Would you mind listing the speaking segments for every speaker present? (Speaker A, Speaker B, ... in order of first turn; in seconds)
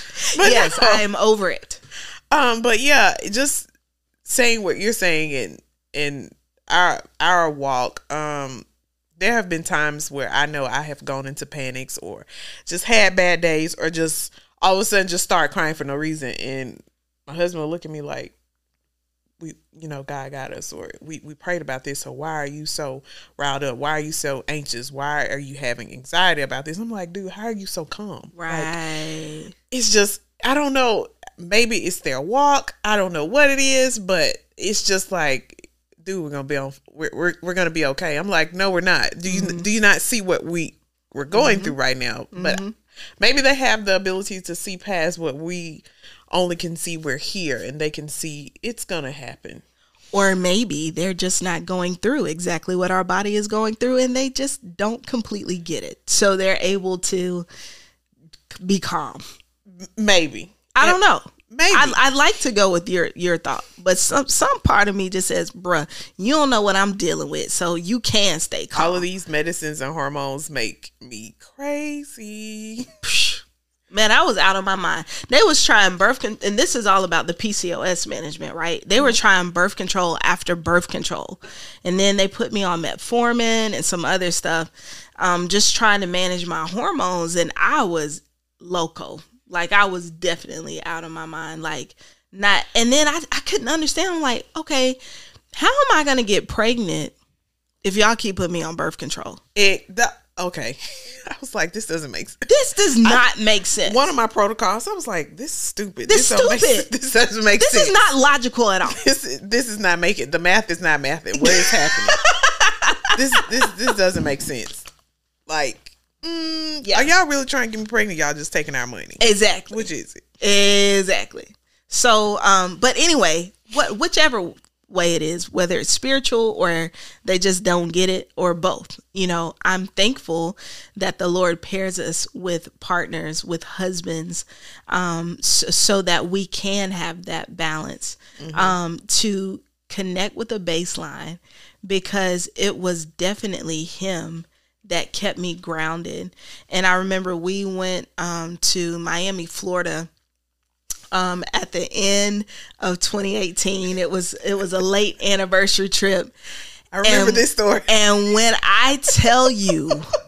Speaker A: 0.3-1.0, 2.3-3.7, 4.2-8.7, 9.2-18.3, 19.4-28.7, 29.7-42.6, 43.2-49.6, 59.8-61.0, 61.5-62.0, 68.7-72.9, 99.5-102.5, 103.8-108.0, 108.9-112.2, 113.2-114.9, 115.5-120.2, 138.4-138.8, 156.9-157.9
Speaker B: 0.4-1.8, 28.4-29.5, 39.3-39.6, 41.3-41.8, 42.3-42.7, 50.1-57.5, 58.6-59.2, 60.7-69.0, 73.0-95.0, 95.5-97.1, 97.8-99.4, 102.5-104.0, 106.1-106.9, 107.6-109.0, 111.4-113.2, 119.2-119.9, 120.4-150.1, 151.1-156.3, 157.0-160.1